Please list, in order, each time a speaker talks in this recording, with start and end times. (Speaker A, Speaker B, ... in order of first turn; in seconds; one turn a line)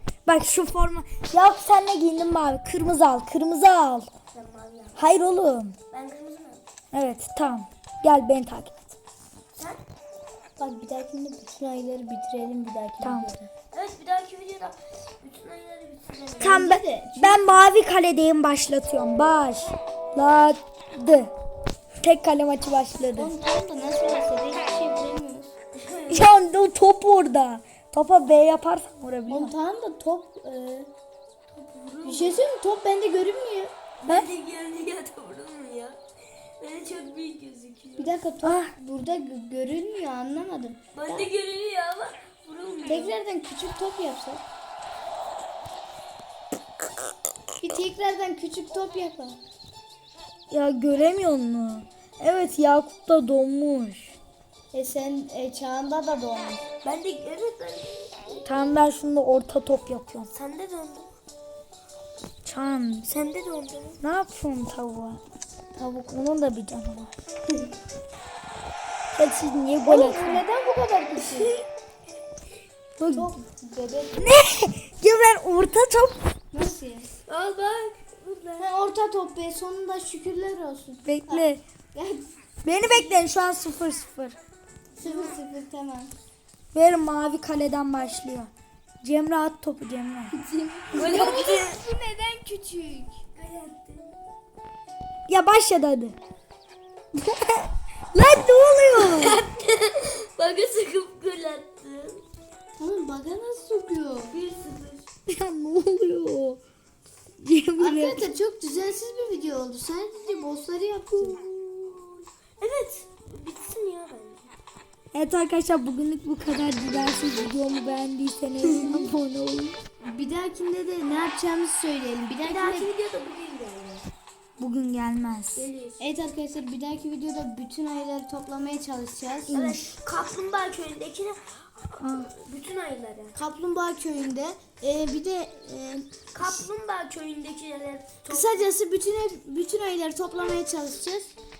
Speaker A: 0.2-4.1
Speaker B: 4.3-5.0
Speaker A: 5.0-5.8
Speaker B: 5.9-6.6
Speaker A: 6.9-8.9
Speaker B: 9.6-9.8
Speaker C: 10.6-13.5
Speaker A: 13.0-13.3
Speaker B: 13.7-16.6
Speaker C: 16.4-17.6
Speaker A: 16.4-21.3
Speaker A: 22.0-23.3
Speaker C: 23.1-25.5
Speaker B: 25.8-26.1
Speaker A: 26.1-29.5
Speaker C: 29.3-30.9
Speaker B: 31.5-32.4
Speaker C: 32.0-33.7
Speaker B: 34.0-36.0
Speaker B: 36.6-38.1
Speaker C: 38.0-41.3
Speaker A: 38.4-38.7
Speaker B: 40.9-43.2
Speaker C: 42.9-44.4
Speaker C: 47.6-49.4
Speaker A: 50.5-54.1
Speaker C: 54.7-56.6
Speaker B: 56.8-58.4
Speaker A: 58.4-60.3
Speaker B: 60.3-61.1
Speaker A: 62.4-63.1
Speaker B: 63.1-64.0
Speaker A: 64.0-65.2
Speaker A: 65.8-67.1
Speaker A: 69.1-70.4
Speaker C: 69.8-71.5
Speaker B: 71.2-71.6
Speaker A: 73.0-73.4
Speaker C: 73.1-74.3
Speaker A: 74.2-76.2
Speaker C: 76.5-77.1
Speaker B: 77.3-78.7
Speaker C: 78.6-82.3
Speaker A: 81.0-81.6
Speaker A: 82.6-84.3
Speaker B: 85.0-85.4
Speaker C: 85.0-86.1
Speaker A: 86.7-88.5
Speaker A: 89.0-90.3
Speaker C: 90.4-93.2
Speaker A: 90.9-91.6
Speaker B: 90.9-91.7
Speaker B: 93.3-94.1
Speaker A: 95.3-96.2
Speaker A: 97.1-99.4
Speaker B: 99.0-102.2
Speaker C: 102.8-104.3
Speaker B: 104.3-105.0
Speaker A: 105.3-106.6
Speaker A: 107.4-108.3
Speaker C: 107.8-111.4
Speaker B: 111.2-114.5
Speaker A: 115.1-119.8
Speaker C: 118.7-119.1
Speaker C: 120.0-122.9
Speaker B: 122.4-124.0
Speaker A: 124.6-125.7
Speaker B: 125.5-126.0
Speaker C: 126.0-129.5
Speaker A: 129.5-129.8
Speaker B: 129.5-133.3
Speaker A: 132.0-132.3
Speaker C: 133.3-136.7
Speaker B: 136.3-138.6
Speaker C: 138.3-141.3